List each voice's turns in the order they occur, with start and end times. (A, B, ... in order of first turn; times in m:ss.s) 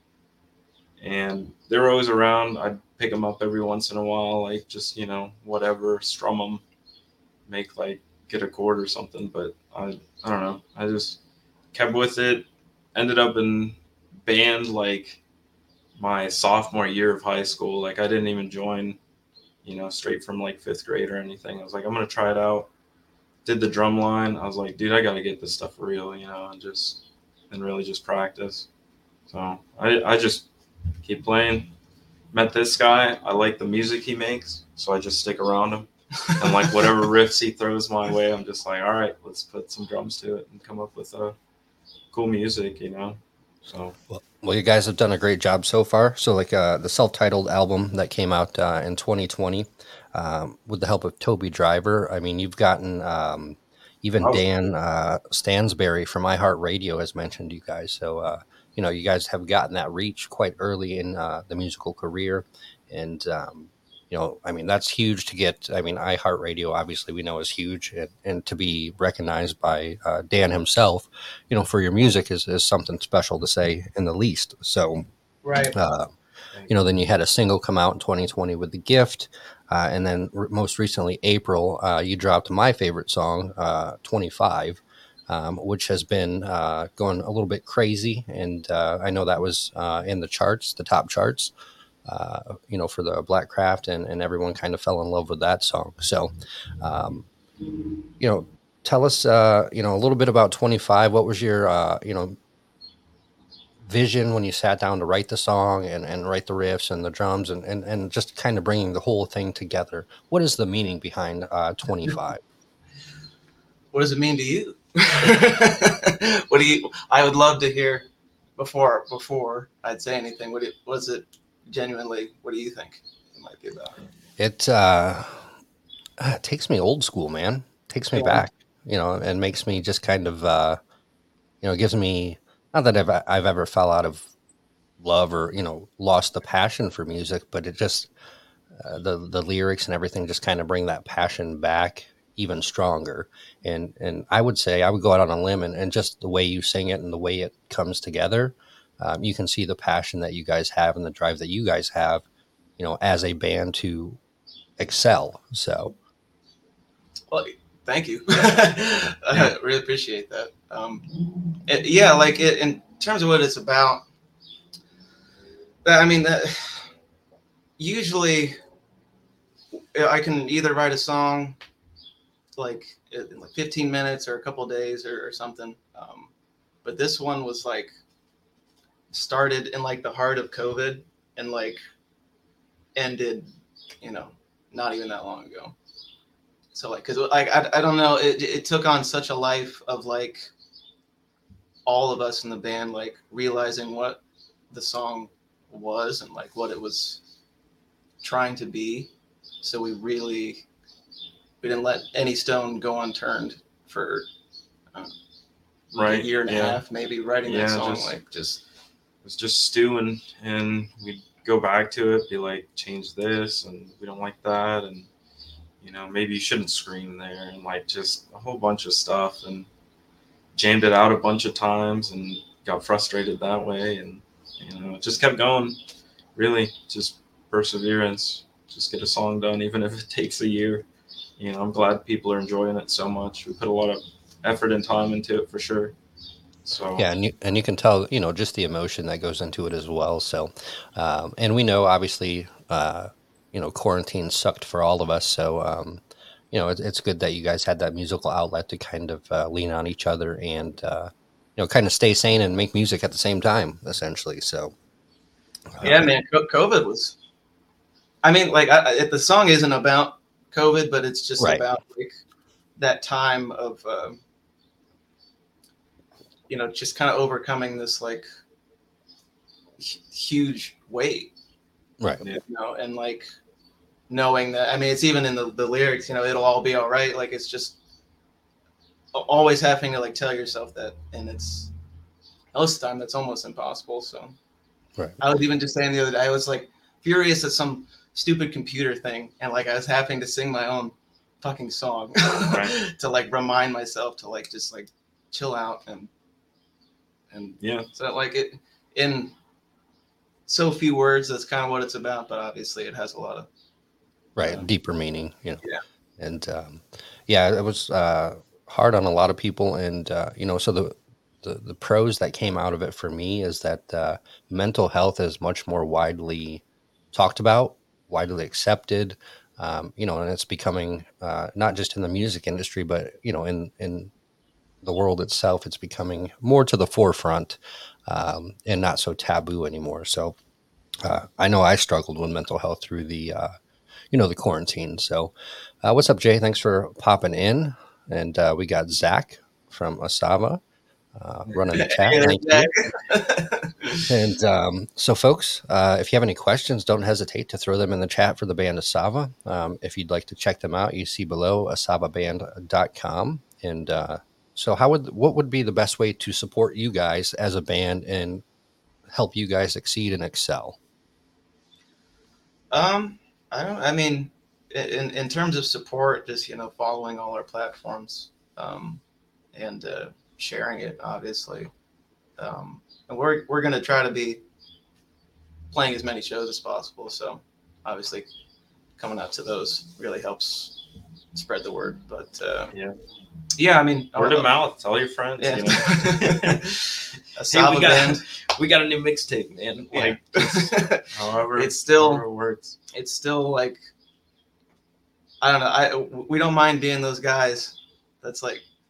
0:01.0-0:06.6 A
0:07.5-0:11.2 A
0:11.7-0:15.2 A
0:16.0-0:19.0 A
0:19.6-0:22.7 A
0:23.4-0:28.7 A
0:29.3-0:30.5 A
0:31.0-0:31.7 A
0:32.3-0:41.4 A
0:36.2-0:36.7 B
0:42.1-0:44.0 A
0:44.1-1:15.1 C
1:15.4-1:15.8 B
1:15.7-1:16.1 C
1:16.7-1:31.5 C
1:32.0-1:37.3 C
1:38.2-1:42.4 C
1:43.8-1:52.4 C
1:53.9-2:04.0 B
2:04.4-2:05.5 C
2:06.2-2:10.8 C
2:08.1-2:08.4 B
2:11.6-2:14.3 C
2:15.0-2:18.1 C
2:18.8-2:32.2 C
2:32.8-2:34.2 C
2:34.8-2:35.9 C
2:37.3-2:41.1 B
2:41.6-2:44.0 B
2:45.8-2:46.9 B
2:47.8-2:48.6 B
2:50.0-2:51.6 B
2:52.6-2:56.3 B
2:56.8-2:57.9 B
2:59.1-3:01.8 B
3:03.0-3:03.5 B
3:04.0-3:05.8 B
3:06.7-3:10.5 B
3:11.9-3:17.2 B
3:18.2-3:19.1 B
3:19.6-3:20.7 B
3:21.6-3:24.3 B
3:25.9-3:28.6 B
3:26.0-3:26.8 A
3:27.5-3:28.2 A
3:29.2-3:35.1 A
3:35.8-3:39.7 A
3:40.6-3:45.8 A
3:46.4-3:50.8 A
3:51.4-3:56.0 A
3:56.6-3:57.0 A
3:57.0-4:14.8 C
4:15.7-4:16.1 C
4:15.8-4:17.2 B
4:18.2-4:22.1 B
4:21.4-4:21.6 C
4:22.8-4:24.2 B
4:26.5-4:28.2 B
4:29.8-4:31.3 B
4:32.3-4:33.2 B
4:34.1-4:37.8 B
4:39.1-4:41.7 B
4:42.5-4:44.4 B
4:45.2-4:56.1 B
4:52.4-4:52.8 A
4:57.3-4:59.3 B
4:57.6-4:57.9 A
5:00.5-5:03.5 B
5:04.4-5:05.6 C
5:06.2-5:24.1 C
5:24.8-5:30.4 C
5:31.0-5:33.5 C
5:34.1-5:35.3 C
5:35.8-5:40.6 C
5:41.2-5:42.8 C
5:41.7-5:44.1 B
5:44.1-5:58.4 C
5:59.1-6:00.8 C
6:02.7-6:09.0 B
6:09.5-6:11.7 B
6:12.4-6:14.4 B
6:15.7-6:18.3 B
6:19.0-6:20.8 B
6:21.3-6:22.7 B
6:23.6-6:24.5 B
6:24.2-6:26.6 A
6:25.4-6:28.2 B
6:27.5-6:32.8 A
6:29.9-6:32.2 B
6:32.9-6:33.8 B
6:35.4-6:38.6 B